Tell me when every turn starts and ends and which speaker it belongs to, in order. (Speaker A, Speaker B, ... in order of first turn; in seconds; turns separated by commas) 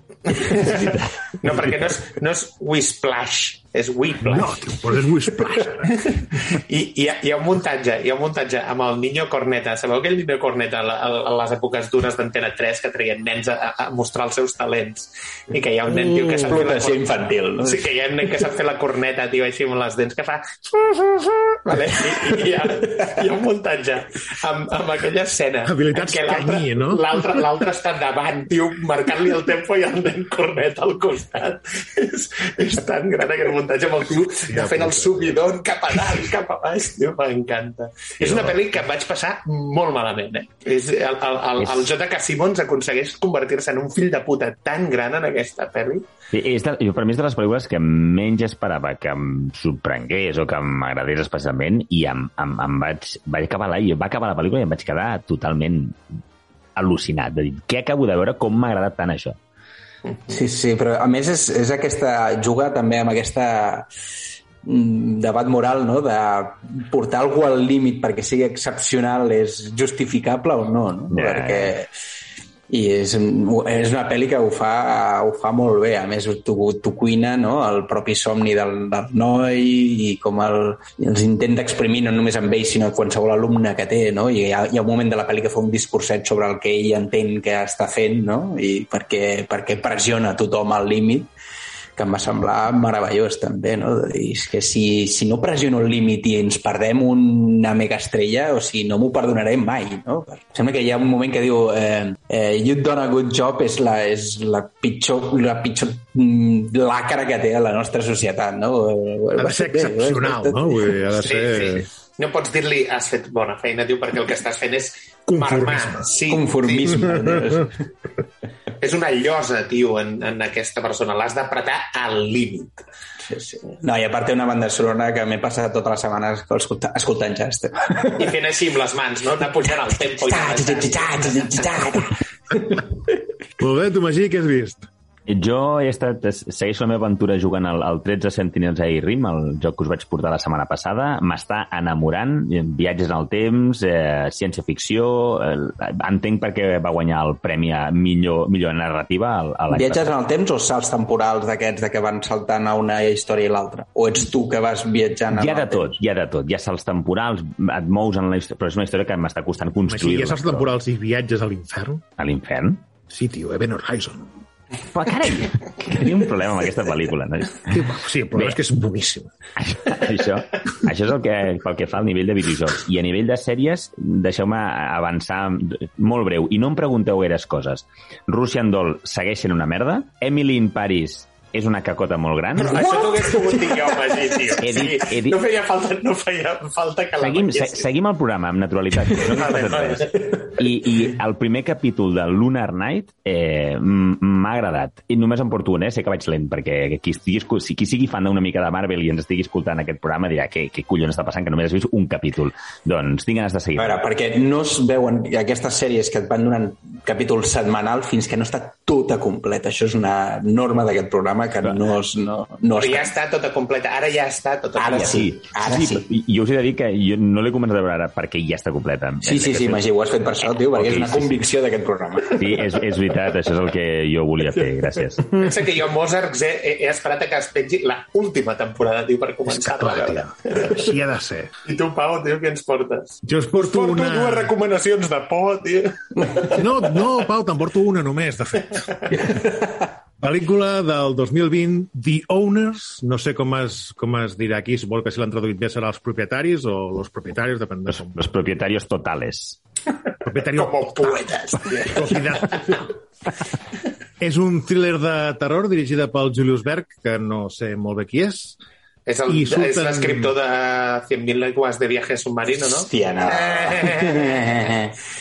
Speaker A: 0.3-4.7, Speaker B: 4.2-6.2, Speaker A: 5.9-17.0, Speaker C: 15.9-17.9, Speaker A: 17.6-46.0, Speaker B: 25.7-27.6, Speaker B: 34.5-35.4, Speaker D: 38.2-38.6, Speaker D: 41.6-41.9, Speaker D: 46.3-56.0, Speaker D: 56.8-59.4, Speaker C: 60.3-63.9, Speaker C: 64.6-71.9, Speaker D: 71.1-71.7, Speaker C: 72.7-91.3, Speaker C: 92.0-110.8, Speaker B: 109.4-111.9, Speaker A: 111.2-117.2, Speaker B: 115.3-116.1, Speaker C: 116.3-117.7, Speaker A: 118.8-122.8, Speaker C: 123.2-128.3, Speaker A: 128.1-132.0, Speaker C: 130.1-132.8, Speaker B: 133.6-134.9, Speaker D: 135.3-150.1, Speaker C: 149.7-155.9, Speaker D: 155.3-160.7, Speaker B: 159.9-162.0, Speaker D: 162.2-162.8, Speaker B: 163.1-164.3, Speaker D: 164.9-168.6, Speaker B: 167.7-169.3, Speaker D: 169.6-183.0, Speaker A: 182.6-187.9, Speaker D: 184.6-185.4, Speaker D: 187.2-204.0, Speaker A: 189.4-190.4, Speaker C: 203.8-213.1, Speaker A: 212.7-215.2, Speaker C: 214.8-216.1, Speaker D: 214.9-221.4, Speaker C: 219.2-222.8, Speaker D: 222.3-225.4, Speaker A: 225.4-230.8, Speaker B: 229.5-231.5, Speaker A: 231.7-236.9, Speaker B: 233.2-234.5, Speaker B: 236.6-239.3, Speaker B: 240.2-248.2, Speaker D: 247.9-249.6, Speaker B: 250.2-252.9, Speaker A: 250.4-252.8, Speaker B: 254.2-258.6, Speaker A: 259.1-264.5, Speaker B: 259.3-260.3, Speaker C: 262.9-264.9